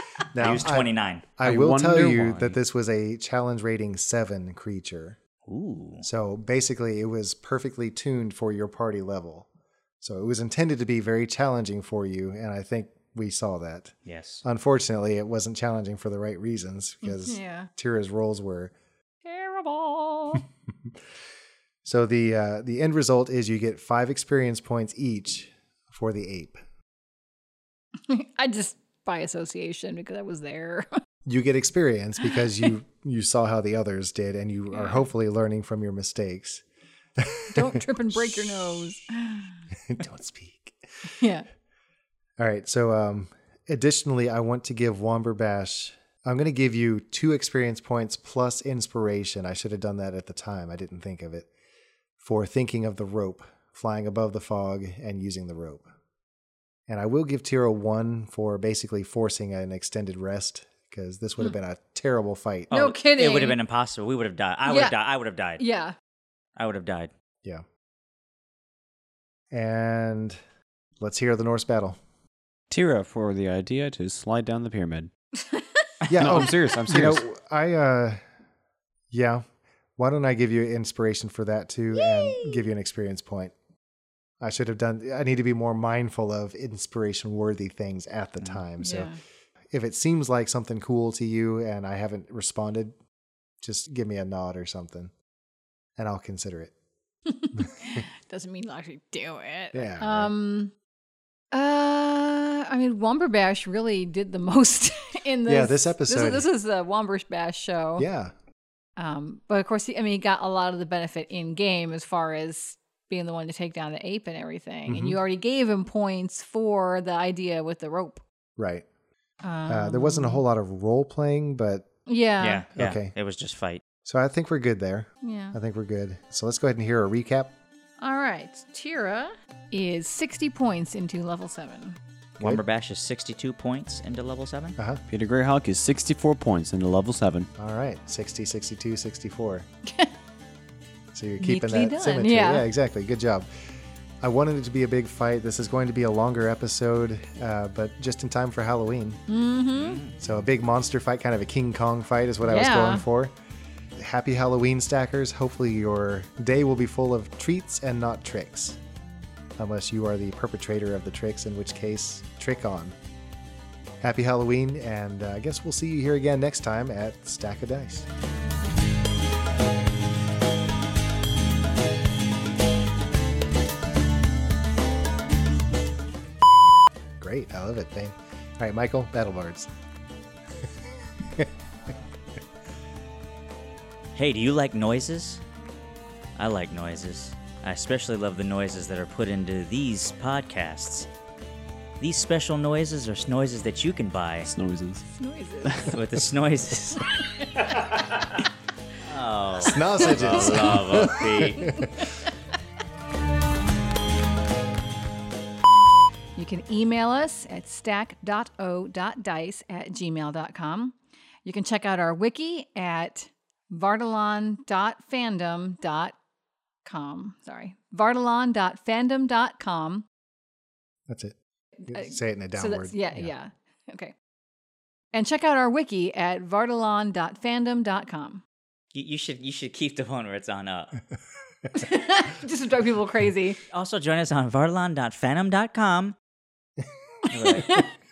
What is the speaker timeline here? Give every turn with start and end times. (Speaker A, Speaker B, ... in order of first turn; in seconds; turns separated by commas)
Speaker A: 0.3-5.2, Speaker B: 0.4-1.3, Speaker C: 1.4-2.6, Speaker B: 5.5-6.1, Speaker A: 6.0-9.5, Speaker A: 10.0-18.7, Speaker B: 14.1-14.4, Speaker D: 17.0-17.7, Speaker D: 19.2-20.4, Speaker A: 21.9-26.6, Speaker D: 28.1-30.9, Speaker A: 31.3-36.6, Speaker D: 34.8-35.0, Speaker A: 37.2-38.6, Speaker D: 37.5-39.5, Speaker A: 39.9-40.8, Speaker D: 41.2-41.5, Speaker A: 42.4-51.5, Speaker A: 52.2-55.9, Speaker A: 56.9-62.7, Speaker B: 62.7-65.6, Speaker D: 62.7-63.6, Speaker D: 64.7-65.0, Speaker D: 65.6-66.0, Speaker B: 66.6-67.1, Speaker A: 69.5-70.4, Speaker A: 71.0-72.0, Speaker C: 72.7-75.1, Speaker A: 76.1-78.2, Speaker C: 76.2-77.2, Speaker A: 79.1-79.4, Speaker A: 80.0-83.5, Speaker D: 82.0-82.6, Speaker A: 84.4-89.1, Speaker D: 88.8-89.2, Speaker A: 89.7-93.0, Speaker A: 93.6-95.1, Speaker A: 96.0-96.7, Speaker D: 97.3-100.7, Speaker A: 97.6-98.0, Speaker A: 99.7-100.3, Speaker D: 101.5-108.1, Speaker A: 105.5-106.5, Speaker A: 108.0-108.3, Speaker D: 109.0-118.2, Speaker A: 114.9-115.2, Speaker A: 118.6-118.9, Speaker D: 119.4-120.4, Speaker A: 119.7-121.9, Speaker D: 122.1-122.7, Speaker B: 122.4-123.8, Speaker A: 122.8-123.1, Speaker A: 124.0-127.5, Speaker D: 125.2-125.6, Speaker D: 128.0-132.0, Speaker B: 132.4-134.8, Speaker A: 134.8-135.0, Speaker C: 135.1-137.5, Speaker A: 137.6-139.7, Speaker D: 139.9-140.1, Speaker A: 141.1-143.5, Speaker D: 141.4-142.7, Speaker A: 144.2-149.2, Speaker D: 149.3-150.0, Speaker B: 149.7-150.2, Speaker A: 150.2-153.3, Speaker D: 152.4-153.0, Speaker A: 154.0-158.8, Speaker A: 159.6-162.9, Speaker A: 164.0-168.1, Speaker A: 177.2-179.7, Speaker B: 184.2-185.4, Speaker B: 186.4-191.1, Speaker B: 192.0-194.5, Speaker C: 194.4-195.1, Speaker D: 195.2-196.0, Speaker C: 195.6-196.1, Speaker B: 195.9-198.4, Speaker D: 197.0-197.5, Speaker B: 199.0-201.9, Speaker A: 199.6-202.0, Speaker D: 200.0-202.1, Speaker D: 206.4-216.1, Speaker D: 216.8-220.1, Speaker A: 221.1-221.4, Speaker D: 221.8-224.1, Speaker A: 221.9-223.3, Speaker D: 225.1-228.4, Speaker B: 228.9-231.0, Speaker D: 231.7-233.6, Speaker B: 233.7-236.2, Speaker B: 237.3-237.9, Speaker D: 237.5-237.9